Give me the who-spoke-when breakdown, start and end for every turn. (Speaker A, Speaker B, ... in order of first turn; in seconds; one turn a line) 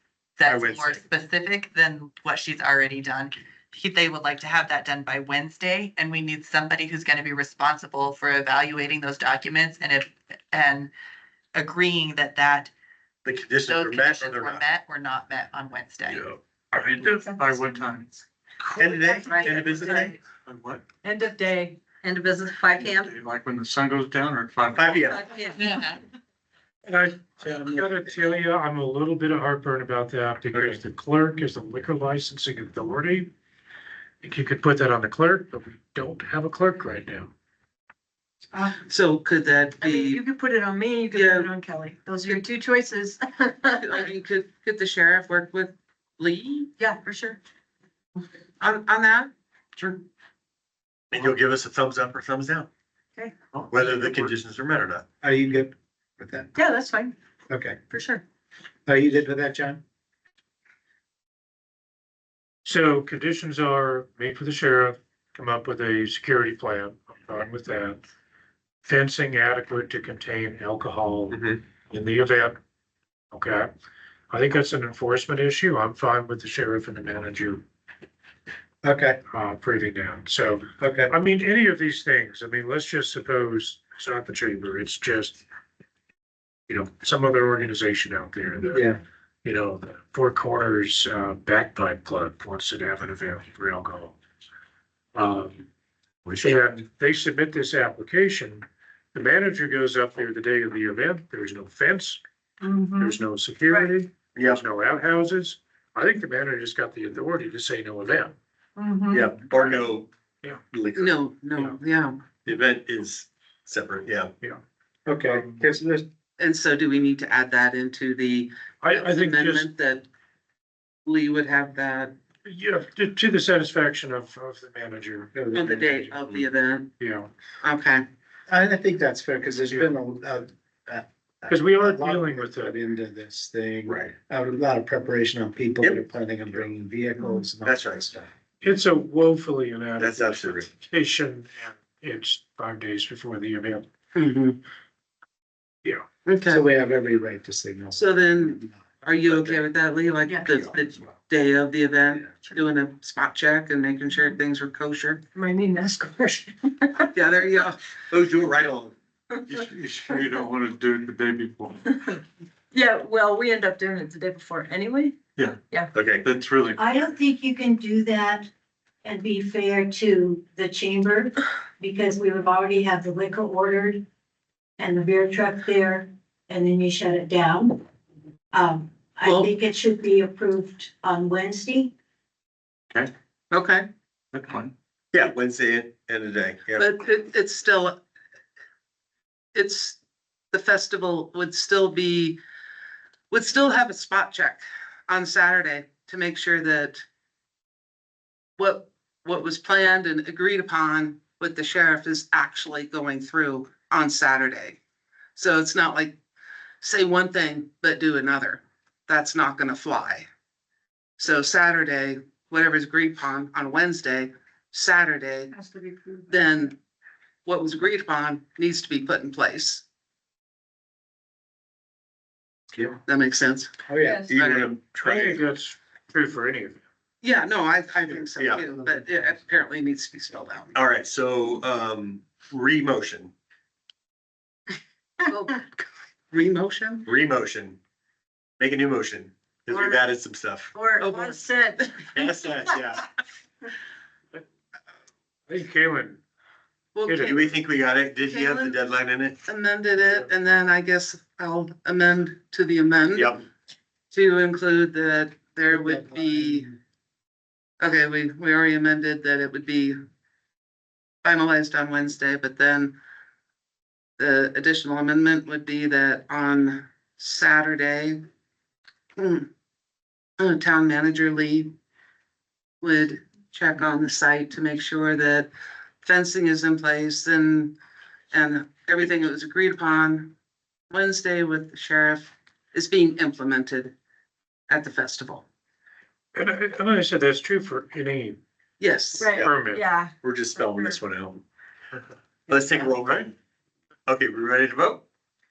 Speaker A: 0.4-10.9
Speaker B: 0.5-1.0
Speaker A: 11.6-12.7
Speaker B: 13.2-14.6
Speaker A: 13.6-16.3
Speaker C: 16.2-18.8
Speaker D: 18.8-20.1
Speaker B: 18.8-20.1
Speaker C: 20.3-20.8
Speaker D: 21.0-23.0
Speaker C: 22.7-25.0
Speaker B: 24.7-25.2
Speaker D: 25.1-25.6
Speaker A: 25.5-26.0
Speaker E: 26.9-33.3
Speaker E: 34.2-37.3
Speaker F: 38.9-40.2
Speaker D: 39.8-44.0
Speaker F: 41.1-41.5
Speaker F: 43.8-46.7
Speaker D: 46.8-47.4
Speaker F: 48.6-50.0
Speaker B: 51.1-52.7
Speaker D: 53.2-53.5
Speaker B: 53.7-55.1
Speaker E: 53.9-54.2
Speaker G: 55.2-56.5
Speaker D: 56.5-57.1
Speaker G: 57.5-57.8
Speaker D: 57.9-58.2
Speaker G: 58.9-59.8
Speaker E: 62.6-68.0
Speaker E: 68.8-72.6
Speaker B: 71.3-71.6
Speaker E: 73.3-73.7
Speaker E: 74.3-77.6
Speaker G: 78.8-79.2
Speaker E: 79.3-85.4
Speaker G: 80.8-81.1
Speaker E: 86.7-88.9
Speaker G: 88.7-89.0
Speaker E: 89.4-94.2
Speaker E: 95.2-95.7
Speaker E: 96.3-102.2
Speaker D: 102.6-103.9
Speaker E: 103.0-108.3
Speaker B: 104.3-104.6
Speaker D: 108.8-109.8
Speaker B: 109.1-110.1
Speaker B: 110.7-111.2
Speaker F: 111.0-112.2
Speaker B: 112.5-114.3
Speaker G: 115.1-116.0
Speaker F: 116.4-120.1
Speaker E: 118.8-119.7
Speaker F: 121.1-122.1
Speaker E: 122.5-126.2
Speaker G: 125.3-125.9
Speaker F: 125.5-126.9
Speaker E: 127.0-127.3
Speaker F: 127.6-128.0
Speaker G: 128.5-138.3
Speaker E: 129.7-130.0
Speaker E: 131.5-132.8
Speaker B: 133.9-134.1
Speaker B: 137.6-138.1
Speaker E: 138.6-143.9
Speaker B: 140.0-140.7
Speaker F: 144.2-144.6
Speaker F: 146.3-146.6
Speaker G: 146.5-149.0
Speaker F: 148.0-155.2
Speaker B: 149.3-149.6
Speaker D: 155.3-157.1
Speaker F: 157.1-157.8
Speaker B: 158.1-158.9
Speaker C: 159.5-161.8
Speaker D: 162.7-165.9
Speaker B: 165.9-166.3
Speaker C: 166.2-166.9
Speaker H: 166.8-168.5
Speaker H: 169.0-174.0
Speaker H: 174.8-177.8
Speaker H: 178.5-181.9
Speaker F: 179.2-179.5
Speaker F: 183.5-183.9
Speaker C: 184.3-184.7
Speaker B: 185.1-186.9
Speaker F: 186.8-188.0
Speaker F: 189.5-190.0
Speaker F: 190.5-192.4
Speaker F: 193.3-197.0
Speaker F: 198.6-204.8
Speaker F: 205.4-206.2
Speaker F: 206.8-210.3
Speaker F: 211.2-215.5
Speaker D: 215.5-216.5
Speaker F: 216.3-216.8
Speaker F: 217.4-219.8
Speaker F: 223.1-223.7
Speaker G: 223.9-224.3
Speaker D: 224.0-224.3
Speaker B: 224.2-225.4
Speaker F: 224.3-224.7
Speaker E: 224.9-226.8
Speaker F: 227.2-230.8
Speaker B: 228.4-228.6
Speaker G: 228.7-229.3
Speaker B: 230.7-233.3
Speaker F: 235.3-237.1
Speaker B: 237.1-237.8
Speaker B: 238.6-240.7
Speaker D: 239.7-240.0
Speaker D: 240.7-242.7
Speaker F: 241.0-241.5
Speaker B: 242.1-243.0
Speaker E: 245.5-246.2
Speaker F: 246.9-247.5
Speaker E: 247.1-247.5
Speaker B: 247.3-249.4
Speaker F: 248.3-248.9
Speaker F: 249.4-253.4
Speaker B: 253.1-253.4
Speaker F: 254.1-256.7
Speaker G: 255.7-256.8
Speaker F: 257.8-260.0
Speaker F: 261.2-263.0
Speaker F: 264.2-268.2
Speaker F: 269.2-269.5
Speaker F: 270.4-271.7
Speaker F: 272.8-275.5
Speaker F: 276.0-277.8
Speaker F: 278.3-280.3
Speaker F: 280.9-283.9
Speaker F: 284.7-285.5
Speaker E: 286.4-288.4
Speaker F: 288.8-289.3
Speaker D: 289.2-291.0
Speaker E: 289.2-289.9
Speaker B: 290.2-291.4
Speaker B: 292.5-293.3
Speaker C: 293.0-293.3
Speaker B: 294.1-295.1